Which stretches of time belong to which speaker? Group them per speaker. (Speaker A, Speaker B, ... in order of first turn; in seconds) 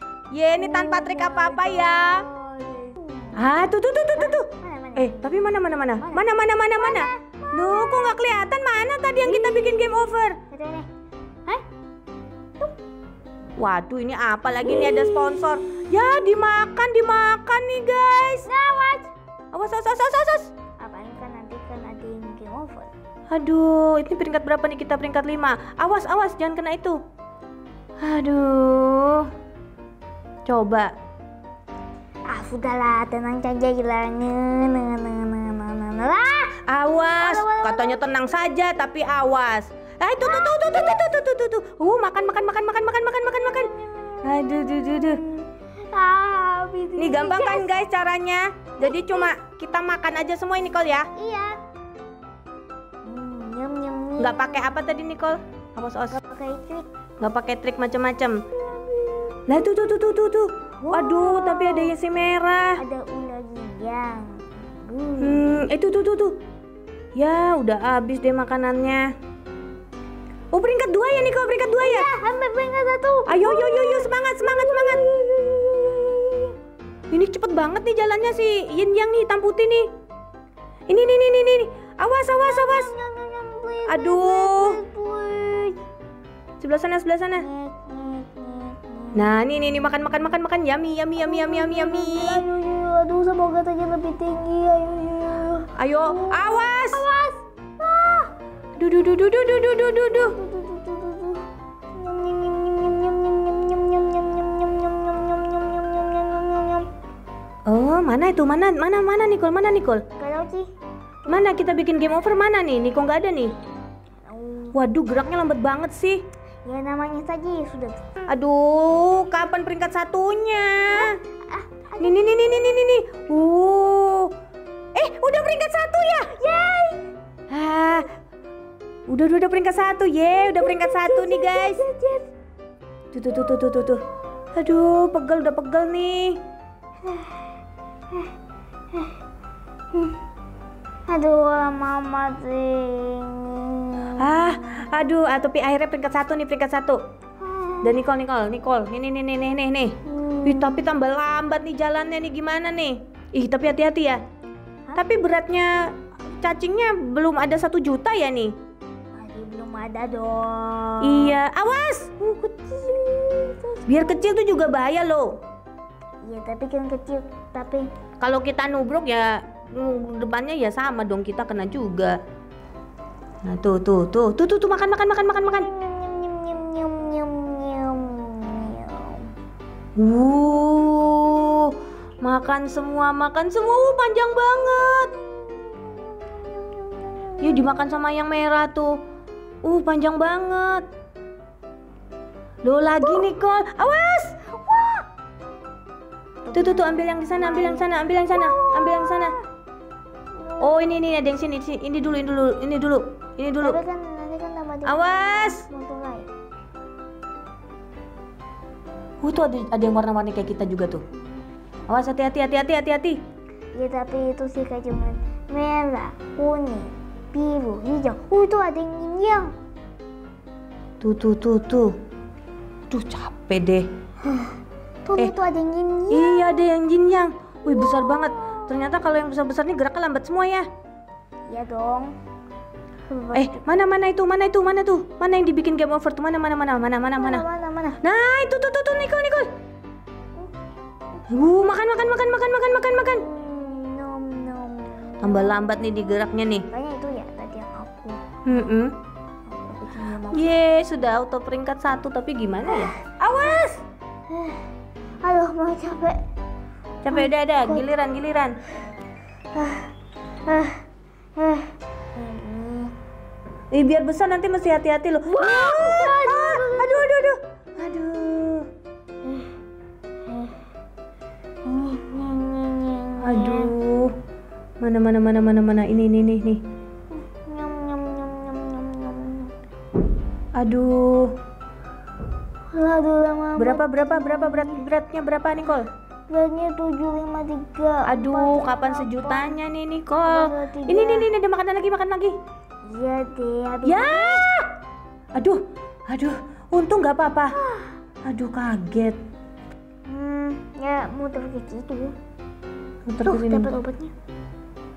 Speaker A: 0.3-2.2, 3.4-10.4, 13.6-18.5, 19.5-20.5, 23.3-27.0, 28.0-29.3, 30.4-30.9, 36.7-43.7, 44.2-45.2, 47.0-51.1, 54.2-56.2, 57.2-58.4, 59.5-62.8, 65.2-66.3, 67.2-69.1, 70.5-72.1, 73.3-75.0, 77.1-79.9, 80.9-82.9, 83.9-84.8, 86.6-87.5, 89.2-92.5, 95.8-97.0, 98.8-100.4, 107.7-110.0, 111.3-113.5, 114.7-116.2, 118.3-121.1, 122.0-124.3, 125.0-126.3, 127.5-128.1, 129.1-131.8, 133.1-134.0, 134.5-136.4, 144.2-147.0, 147.8-154.2, 154.9-155.9, 156.4-158.5, 161.0-162.2, 163.9-165.3, 168.2-172.2, 173.4-175.7, 180.0-185.1, 187.4-189.0, 189.6-190.9, 192.6-194.3, 196.5-199.3, 200.6-203.8, 204.9-205.7, 209.2-211.0, 211.9-213.2, 221.0-221.9, 222.9-223.9, 226.1-230.7, 233.3-237.4, 238.0-239.5, 241.3-243.2, 245.2-246.7, 248.4-248.9, 250.3-253.8, 257.0-258.6, 263.7-268.7, 273.2-274.1, 274.8-276.6, 280.6-281.4, 283.6-285.9, 288.1-292.4, 293.9-294.7, 295.4-297.6, 298.3-299.2, 303.1-303.7
Speaker B: 0.6-3.5, 4.2-8.2, 9.2-9.9, 10.5-10.9, 14.6-15.9, 18.5-19.1, 20.8-22.9, 32.3-36.6, 37.1-38.0, 40.2-41.0, 43.3-47.7, 48.8-49.3, 51.1-51.6, 53.0-55.0, 56.1-56.9, 58.7-59.4, 60.8-61.9, 62.8-65.7, 71.8-76.5, 82.4-85.8, 87.4-89.3, 91.2-98.3, 100.1-106.9, 110.2-110.7, 111.2-111.6, 114.2-114.8, 116.7-118.2, 120.9-122.9, 126.3-127.1, 130.3-132.3, 137.1-137.4, 141.1-144.8, 147.4-148.0, 150.1-150.8, 159.2-161.4, 162.2-164.3, 166.2-167.9, 175.3-179.3, 184.9-187.7, 194.6-195.0, 196.4-199.4, 200.3-201.0, 203.6-206.3, 213.8-219.5, 224.2-226.7, 227.7-228.8, 231.5-232.1, 233.1-233.7, 237.1-238.0, 243.1-248.2, 249.5-250.5, 252.7-253.7, 254.3-254.6, 255.2-256.2, 257.1-257.9, 259.5-259.9, 260.5-260.8, 261.4-262.9, 265.3-267.1, 269.2-269.5, 270.3-270.6, 271.6-273.7, 277.1-279.5, 282.7-284.8, 286.3-289.6, 290.2-291.3, 292.9-294.4, 297.6-297.9, 300.1-302.2, 303.2-304.1